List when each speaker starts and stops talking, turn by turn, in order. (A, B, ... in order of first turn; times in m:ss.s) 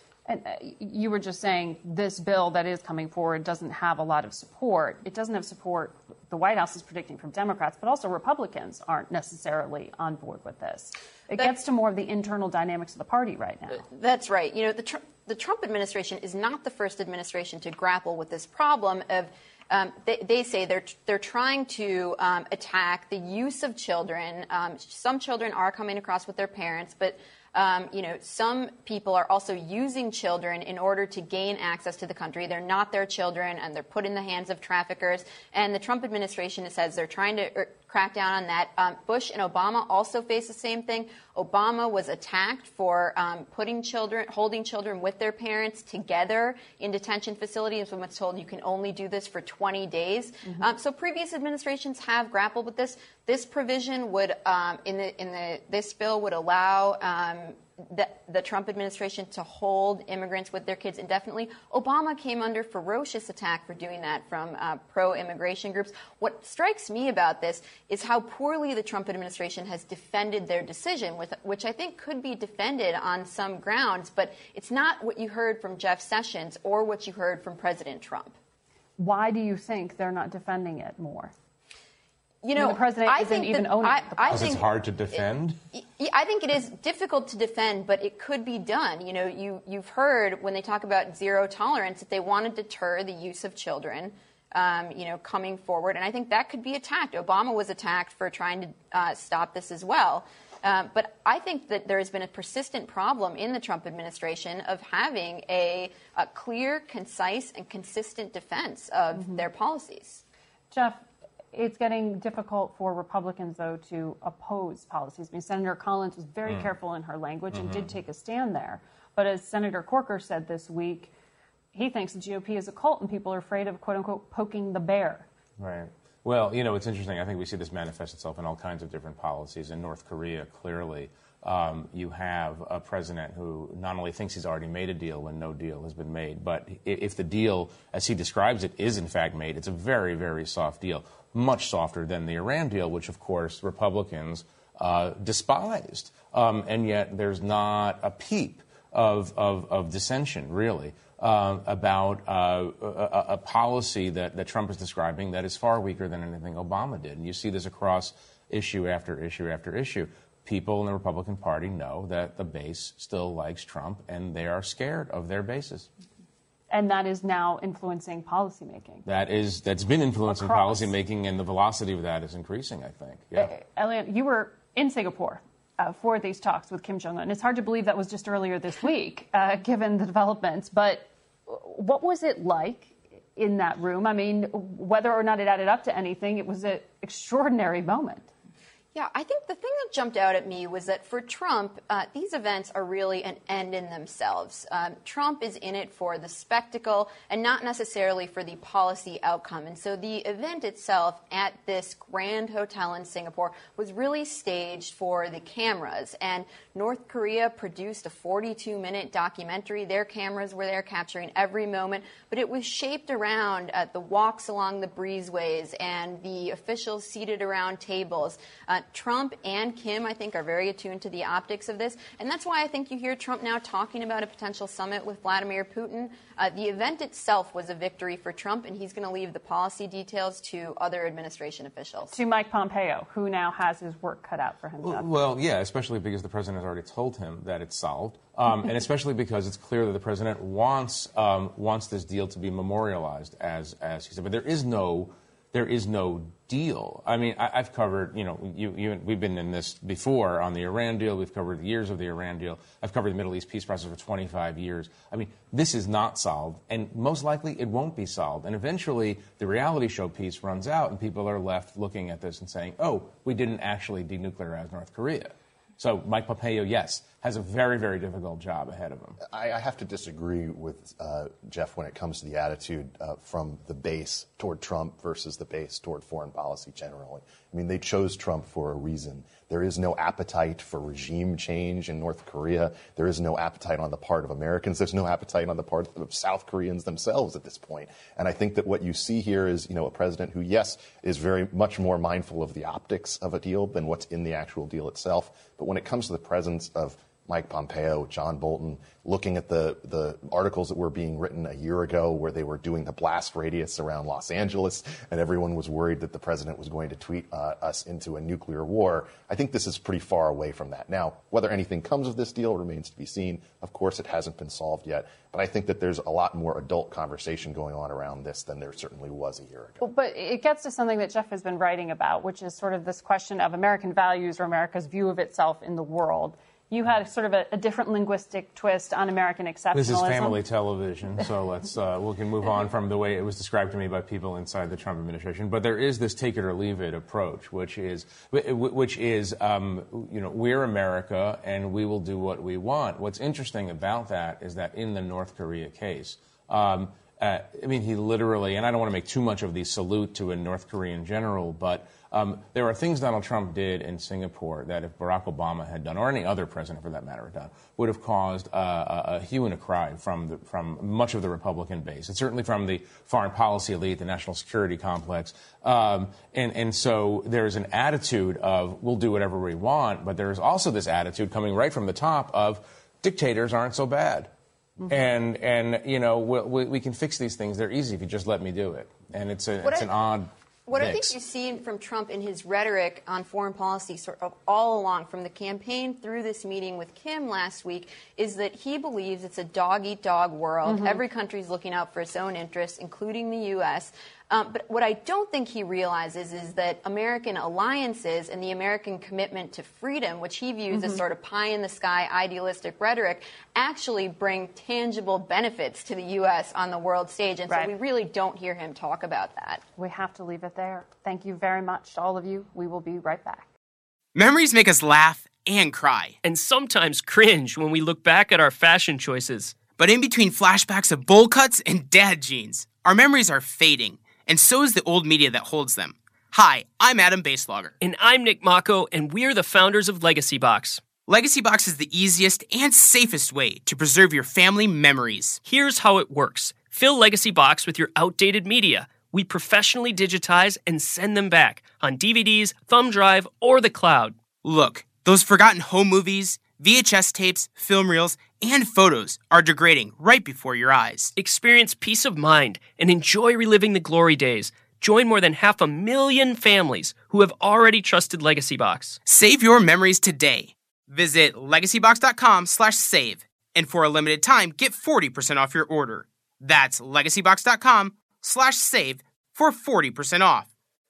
0:00.3-0:13.8 A
0:13.8-1:18.4 B
1:19.0-1:21.3 A
1:22.4-1:50.2 B
1:22.6-1:24.4 A
1:24.3-1:25.6 C
1:49.2-1:49.4 A
1:50.7-2:01.1 A
1:57.5-1:57.9 C
2:01.7-2:05.3 A
2:05.6-2:45.9 C
2:46.7-2:49.0 A
2:49.0-2:53.5 C
2:50.3-2:50.9 A
2:53.3-3:08.3 A
3:08.9-3:52.2 B
3:52.1-3:55.1 A
3:54.8-4:29.2 C
4:29.3-5:19.8 D
5:19.8-5:30.4 A
5:29.7-6:14.3 C
6:14.8-6:21.2 C
6:19.6-6:19.9 B
6:20.7-6:49.6 B
6:30.7-6:31.0 A
6:40.7-6:41.0 A
6:49.8-6:53.5 A
6:54.1-6:56.2 E
6:56.2-6:59.7 F
6:59.7-7:07.7 E
7:07.8-7:10.9 F
7:11.1-7:15.4 E
7:15.4-7:24.2 F
7:24.4-7:31.1 E
7:31.2-7:39.0 F
7:39.0-7:50.5 E